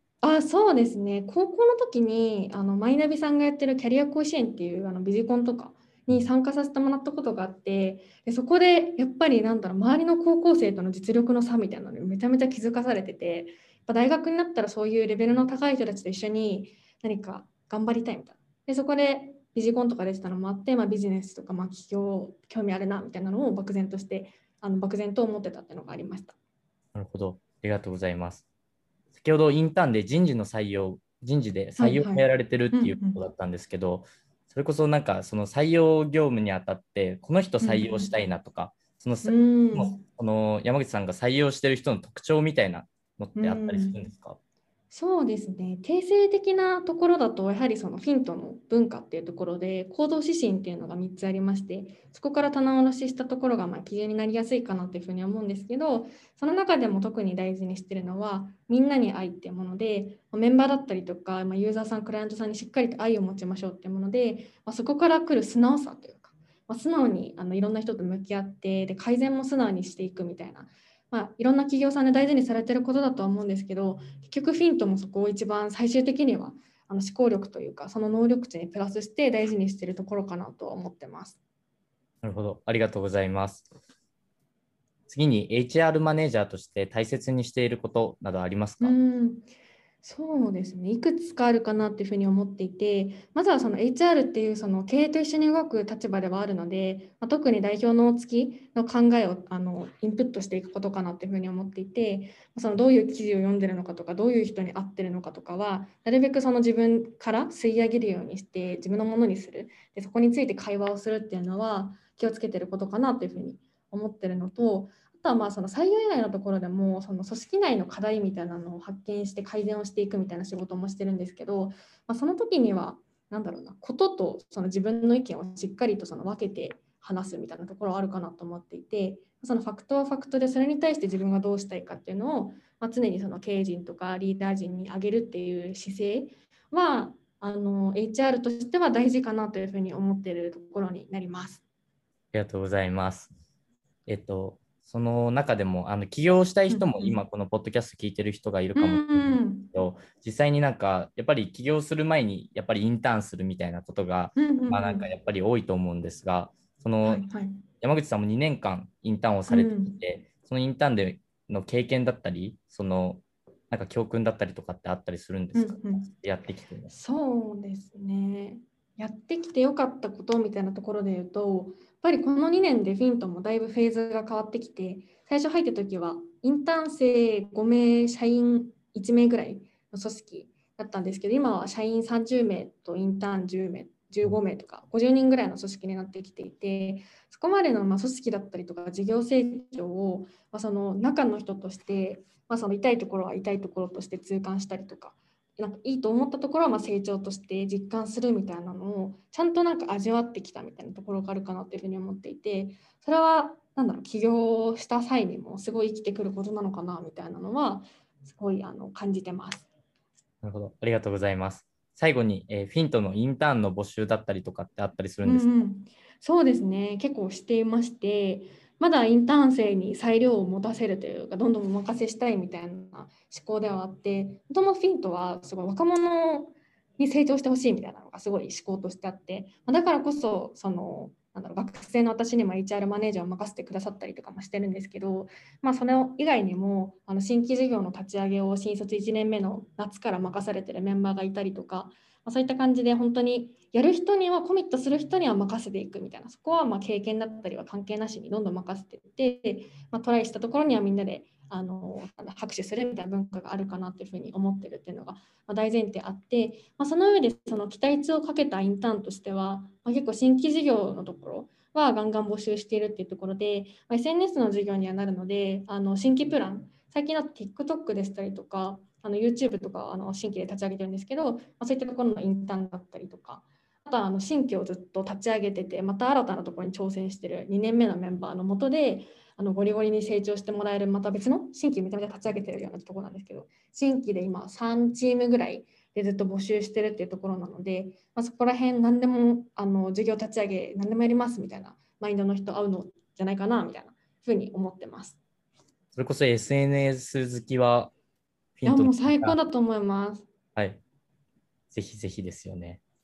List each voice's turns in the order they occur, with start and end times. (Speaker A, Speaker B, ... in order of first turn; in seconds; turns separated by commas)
Speaker A: 0.2-26.4, Speaker B: 26.9-28.4, Speaker B: 29.1-44.4, Speaker A: 31.8-33.2, Speaker A: 37.6-38.1, Speaker A: 39.2-40.0, Speaker A: 43.4-44.0, Speaker A: 44.9-81.4, Speaker B: 82.2-83.7, Speaker B: 85.1-89.0, Speaker A: 88.8-89.5, Speaker A: 90.0-141.6, Speaker B: 142.3-143.3, Speaker B: 144.1-157.2, Speaker A: 146.7-147.2, Speaker A: 148.7-149.7, Speaker A: 154.3-155.1, Speaker A: 157.0-157.6, Speaker B: 157.8-166.9, Speaker A: 159.5-160.0, Speaker A: 165.5-166.1, Speaker A: 166.9-209.7, Speaker B: 210.4-215.5, Speaker A: 215.2-295.2, Speaker B: 295.9-297.9, Speaker B: 298.6-299.4, Speaker A: 298.6-300.2, Speaker B: 300.6-300.8, Speaker B: 301.7-302.8